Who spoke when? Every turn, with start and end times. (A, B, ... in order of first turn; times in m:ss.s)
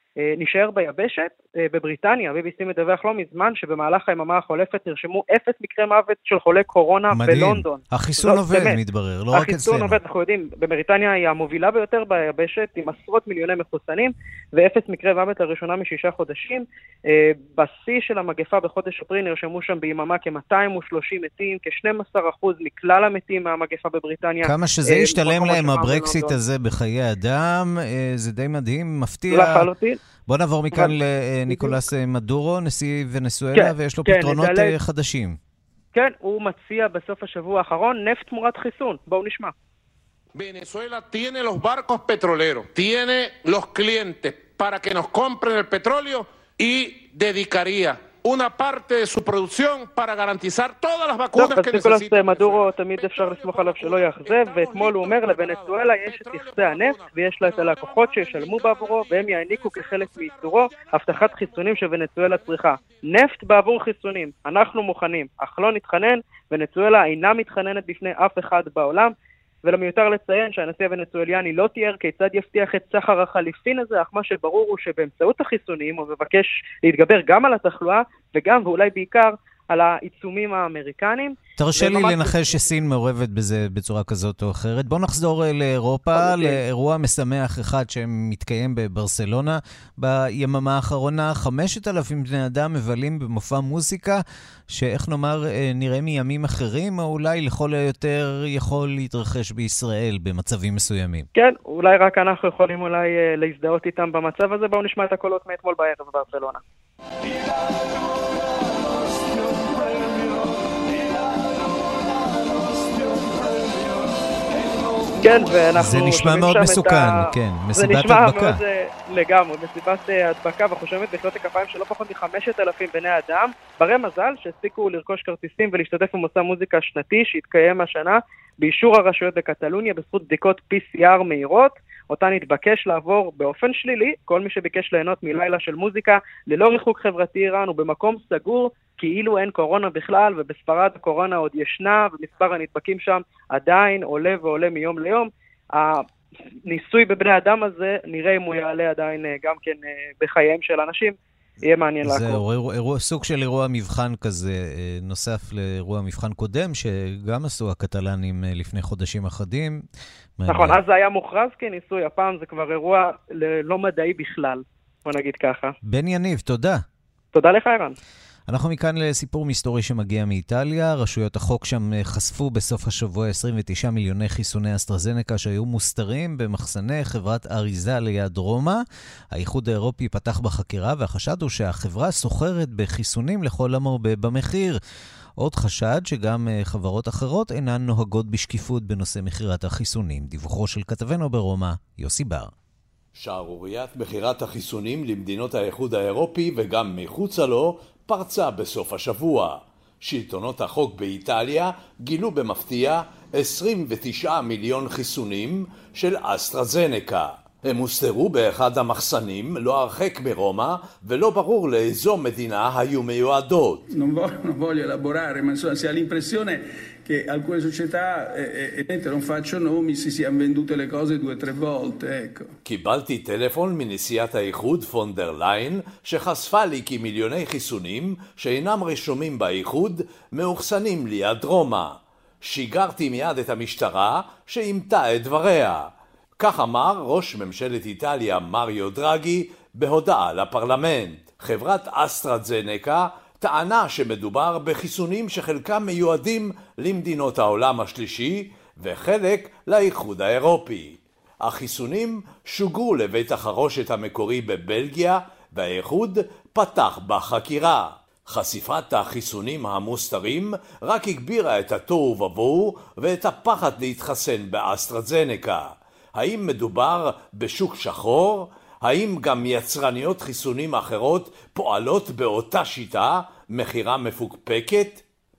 0:00.3-0:08.8 A
0:07.1-0:10.0 B
0:09.3-0:26.3 A
0:24.4-0:29.7 B
0:29.3-0:30.0 A
0:30.3-0:35.4 B
0:31.5-0:31.8 A
0:33.6-0:34.7 A
0:35.9-0:39.5 A
0:40.4-1:01.8 C
0:51.4-1:09.1 A
1:09.6-1:22.7 A
1:21.6-1:41.3 B
1:26.1-1:26.6 A
1:41.4-1:46.6 A
1:49.9-1:50.4 D
1:55.2-2:26.0 A
1:55.7-1:58.6 B
2:26.7-2:32.4 A
2:32.0-2:39.8 B
2:40.4-2:40.8 B
2:40.5-2:45.8 A
2:45.9-2:46.8 B
2:47.3-2:48.0 A
2:48.5-2:58.8 B
2:59.3-3:04.8 B
3:05.4-3:12.5 B
3:13.1-3:33.8 E
3:33.9-3:42.5 D
3:42.6-4:35.0 E